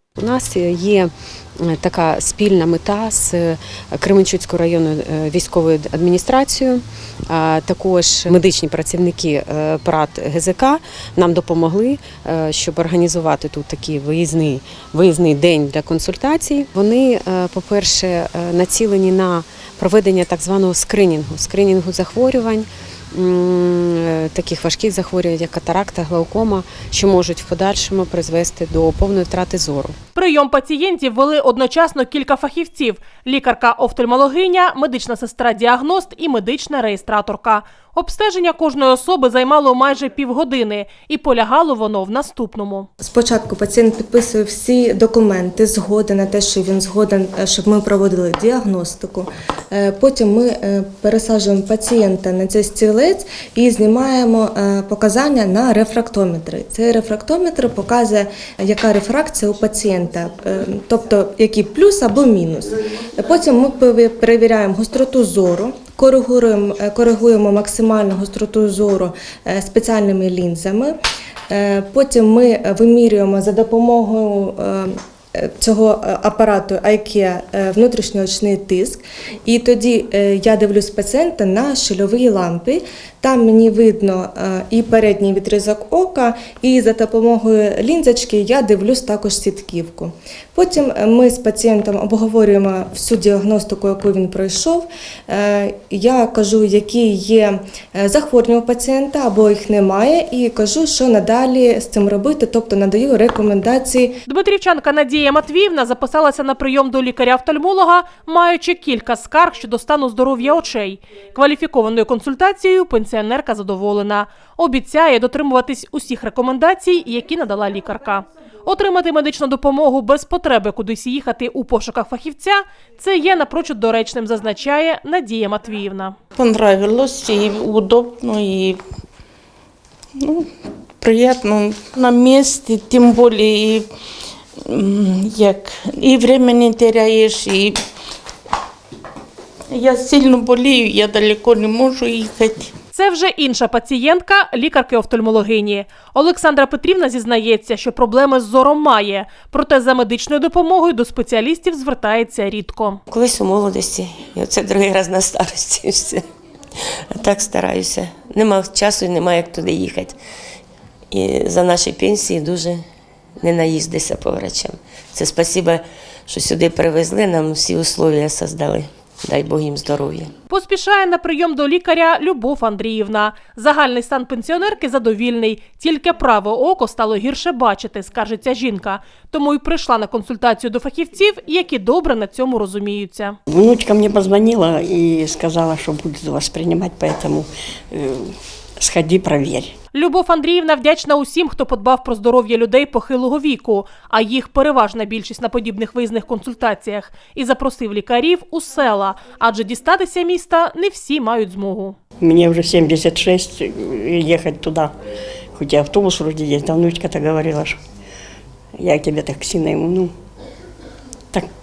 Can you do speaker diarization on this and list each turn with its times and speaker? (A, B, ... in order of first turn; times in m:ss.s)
0:00.2-0:30.0 A
0:30.2-0:42.9 B
0:43.0-1:11.0 C
1:11.5-1:44.2 C
1:44.3-2:06.2 B
2:06.4-2:08.8 D
2:10.2-2:13.9 D
2:14.7-2:17.8 D
2:19.7-2:22.7 D
2:22.9-2:33.0 B
2:33.1-2:36.2 E
2:37.1-2:40.2 E
2:41.1-2:42.8 E
2:43.4-2:50.3 E
2:50.5-3:03.4 B
3:03.5-3:09.7 F
3:09.9-3:22.0 B
3:22.2-3:24.9 F
3:25.6-3:27.8 F
3:28.8-3:30.1 F